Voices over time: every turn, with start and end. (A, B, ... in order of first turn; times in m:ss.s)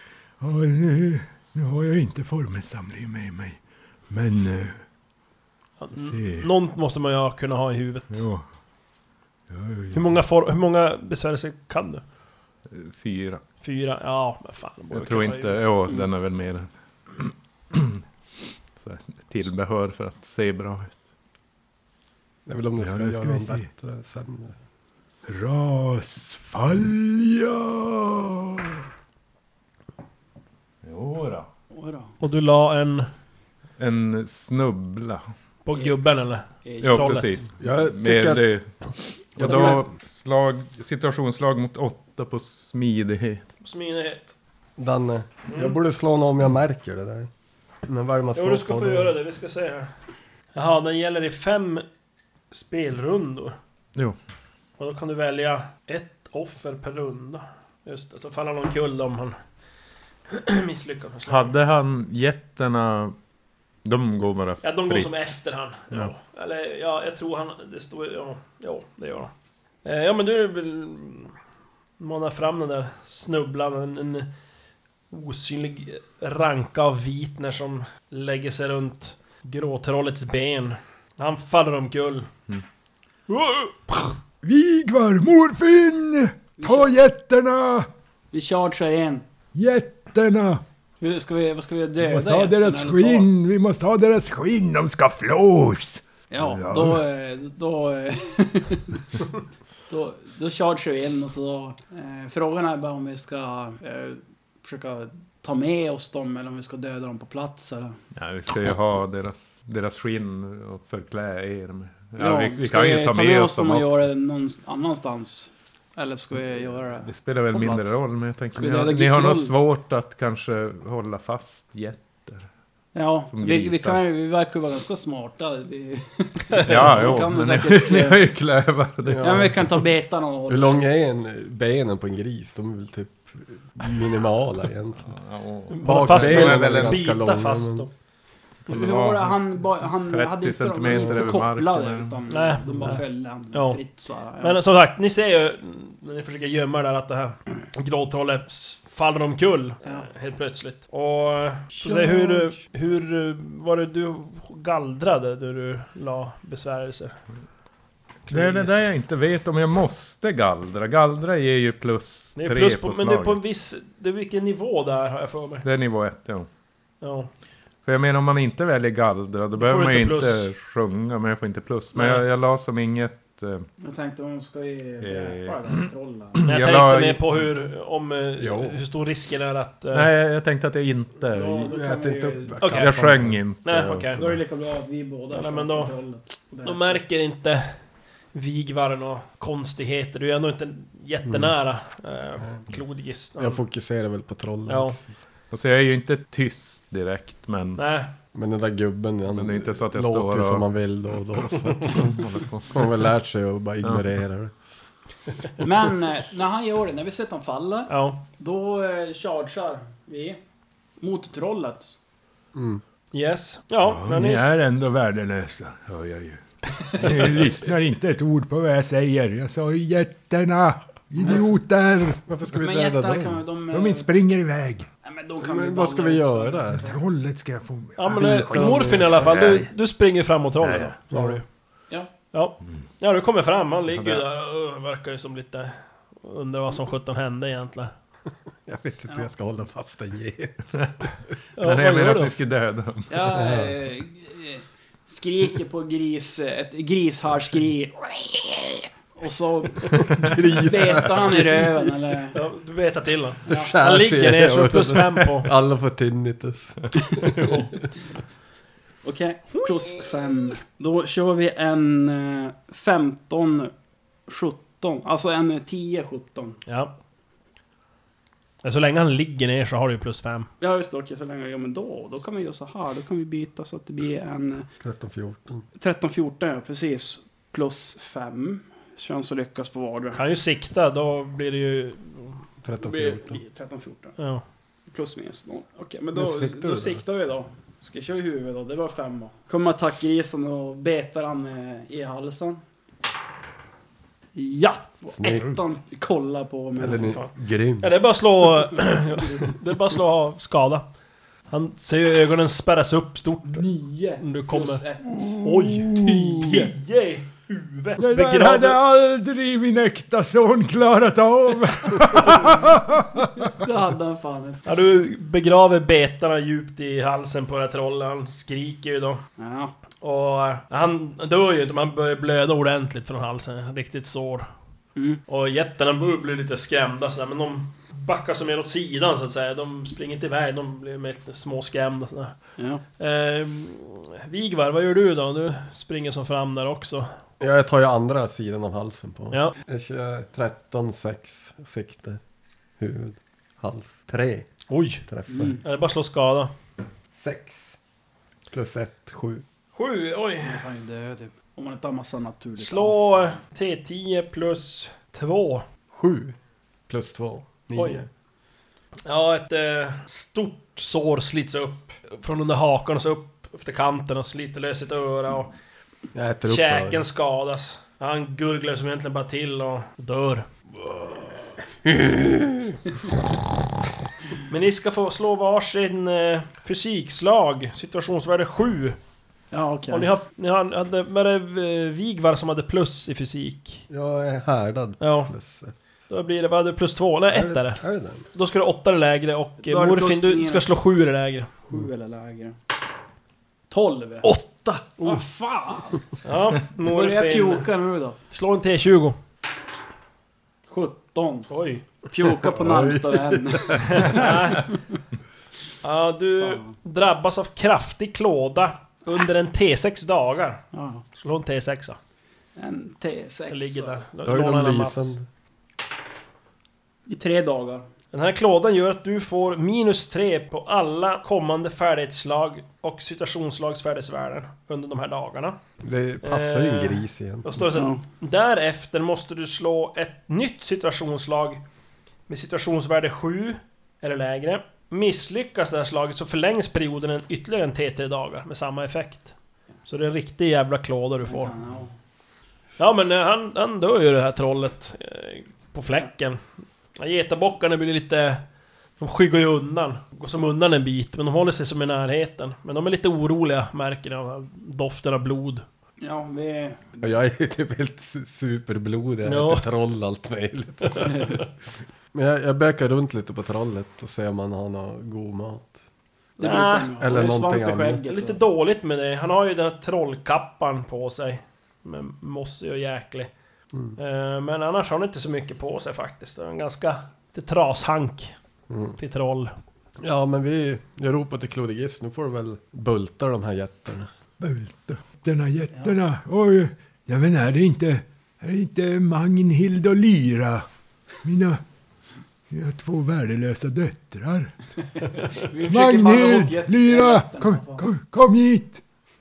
0:00.4-0:04.8 A
0:05.8-0:08.2 B
0:06.0-0:06.5 A
0:08.1-0:08.4 A
0:09.5-0:10.1 A
0:09.9-0:12.0 B
0:12.7-0:13.4 C
0:13.6-0:15.6 B
0:14.9-0:18.0 C
0:18.8-0:21.0 C
0:22.4-0:24.6 D
0:22.8-0:23.7 A
0:25.2-0:28.8 A
0:30.8-0:31.4 A
0:31.7-0:32.1 E
0:32.2-0:33.1 B
0:33.8-0:35.3 C
0:35.6-0:37.4 B
0:36.6-0:37.2 E
0:36.8-0:38.7 C
0:37.6-0:38.5 D
0:39.4-0:43.4 C
0:39.4-0:39.7 D
0:43.6-0:44.3 B
0:44.8-0:47.3 D
0:45.5-0:45.8 B
0:47.8-0:49.2 D
0:48.3-0:49.9 B
0:50.5-0:51.8 B
0:52.5-0:53.6 B
0:54.8-0:59.4 B
1:00.3-1:01.5 B
1:01.3-1:03.2 C
1:03.8-1:05.3 C
1:04.6-1:09.3 B
1:09.8-1:11.3 B
1:12.0-1:14.3 B
1:15.1-1:22.3 B
1:23.3-1:24.1 B
1:24.4-1:27.9 A
1:26.6-1:27.0 E
1:28.3-1:29.2 E
1:29.5-1:30.6 A
1:31.0-1:33.3 E
1:32.0-1:37.0 A
1:36.3-1:39.2 E
1:39.9-1:48.0 E
1:48.1-1:54.1 C
1:52.2-1:58.0 E
1:57.0-2:02.5 C
1:58.5-1:59.5 E
2:02.9-2:08.2 E
2:03.3-2:04.0 C
2:06.6-2:09.8 C
2:09.0-2:09.6 D
2:09.2-2:10.8 E
2:10.5-2:15.1 D
2:15.0-2:17.2 C
2:15.7-2:17.9 B
2:15.8-2:17.9 D
2:18.7-2:24.6 E
2:18.7-2:22.2 C
2:20.9-2:21.3 D
2:22.3-2:23.8 B
2:24.4-2:37.2 B
2:29.8-2:30.1 E
2:31.8-2:32.5 D
2:38.3-2:38.9 B
2:38.3-2:43.4 C
2:42.4-2:45.6 B
2:45.6-2:46.5 C
2:47.0-2:47.3 B
2:47.8-2:53.7 C
2:49.6-2:50.5 B
2:51.9-2:52.2 B
2:53.8-2:56.4 E
2:55.0-2:57.2 C
2:56.4-3:00.1 B
2:58.4-2:58.8 D
2:59.9-3:01.7 C
3:01.2-3:02.7 E
3:01.6-3:03.4 D
3:02.6-3:02.9 B
3:02.6-3:04.4 C
3:03.6-3:04.2 B
3:04.2-3:07.0 E
3:05.3-3:05.9 B
3:06.6-3:07.8 B
3:08.3-3:13.6 B
3:11.2-3:11.5 D
3:13.4-3:15.1 D
3:14.7-3:15.0 B
3:15.5-3:17.8 C
3:17.8-3:18.1 B
3:18.3-3:24.5 D
3:19.3-3:20.6 C
3:21.9-3:23.0 C
3:25.6-3:30.4 E
3:27.9-3:28.2 B
3:31.0-3:31.9 E
3:32.5-3:32.8 D
3:33.1-3:34.5 B
3:33.8-3:42.2 A
3:42.2-3:43.4 D
3:42.5-3:44.1 E
3:43.7-3:44.9 A
3:45.0-3:47.0 E
3:45.4-3:46.9 D
3:46.8-3:49.2 A
3:48.0-3:51.4 B
3:48.4-3:49.2 D
3:48.6-3:49.7 C
3:50.6-3:51.1 C
3:52.3-3:57.9 B
3:53.9-3:54.2 C
3:58.7-4:00.8 D
4:01.6-4:02.3 B
4:01.6-4:03.3 C
4:03.1-4:12.4 E
4:03.3-4:03.8 D
4:10.0-4:11.9 D
4:12.3-4:15.5 B
4:13.4-4:17.3 D
4:13.5-4:13.8 E
4:17.2-4:17.7 B
4:19.0-4:23.7 E
4:19.6-4:20.0 B
4:24.3-4:26.6 E
4:26.6-4:26.9 B
4:28.6-4:30.5 B
4:30.6-4:34.7 E
4:34.8-4:35.6 D
4:35.8-4:40.2 E
4:40.1-4:42.4 B
4:42.6-4:43.4 D
4:42.8-4:44.2 E
4:44.2-4:44.4 B
4:44.9-4:52.6 E
4:46.1-4:47.0 D
4:54.3-4:57.2 E
4:55.1-4:55.6 D
4:56.8-4:58.0 D
4:57.0-5:00.8 B
5:01.5-5:04.8 B
5:03.5-5:05.6 E
5:05.2-5:06.6 A
5:05.4-5:08.8 B
5:06.2-5:06.7 E
5:08.0-5:13.6 A
5:13.4-5:14.6 E
5:14.6-5:19.2 B
5:19.4-5:19.7 E
5:20.0-5:24.5 B
5:25.0-5:25.2 E
5:25.3-5:32.3 B
5:32.6-5:32.8 E
5:33.0-5:37.1 B
5:37.4-5:42.2 D
5:39.3-5:39.6 B
5:42.8-5:44.5 D
5:44.7-5:45.0 B
5:45.0-5:45.6 D
5:45.3-5:45.6 E
5:45.6-5:46.5 B
5:47.1-5:47.7 D
5:48.5-5:49.4 D
5:49.7-5:50.6 B
5:50.4-5:53.4 E
5:52.6-5:55.6 B
5:55.9-5:56.4 D
5:56.9-5:58.1 D
5:57.7-5:58.0 B
5:59.0-6:05.5 B
6:06.1-6:07.0 D
6:06.5-6:10.5 B
6:11.8-6:12.7 D
6:14.5-6:19.0 B
6:19.5-6:20.1 E
6:19.9-6:23.8 B
6:23.9-6:25.7 D
6:25.0-6:25.3 B
6:26.1-6:31.5 B
6:27.3-6:28.2 D
6:29.6-6:30.7 E
6:31.7-6:32.6 E
6:33.7-6:34.3 E
6:34.3-6:34.8 D
6:35.0-6:36.1 E
6:36.2-6:37.7 B
6:36.9-6:38.2 E
6:38.3-6:39.2 B
6:40.7-6:41.5 E
6:41.5-6:41.8 B
6:42.0-6:44.8 E
6:42.4-6:44.1 D
6:43.9-6:44.7 B
6:45.8-6:50.6 B
6:46.4-6:46.7 E
6:50.7-6:51.0 E
6:51.2-6:52.0 B
6:52.6-6:54.0 E
6:53.5-6:55.1 B
6:54.2-6:55.2 D
6:57.0-6:57.9 E
6:58.1-7:05.6 B
7:05.8-7:07.6 D
7:06.2-7:11.6 B
7:07.7-7:08.0 E
7:12.3-7:19.3 B
7:19.8-7:21.5 B
7:21.3-7:21.9 E
7:22.8-7:26.4 B
7:27.0-7:28.4 B
7:29.0-7:35.6 B
7:36.0-7:37.0 E
7:37.0-7:41.4 D
7:39.2-7:39.7 B
7:40.8-7:41.4 B
7:42.1-7:45.8 D
7:46.4-7:48.4 E
7:46.4-7:47.0 B
7:47.0-7:48.0 D
7:48.1-7:53.3 B
7:54.0-7:58.3 B
7:58.7-7:59.0 D
7:59.0-7:59.5 B
8:00.0-8:04.1 D
8:04.4-8:10.6 A
8:11.2-8:11.6 A
8:12.5-8:14.5 A
8:15.3-8:17.8 E
8:15.7-8:18.8 A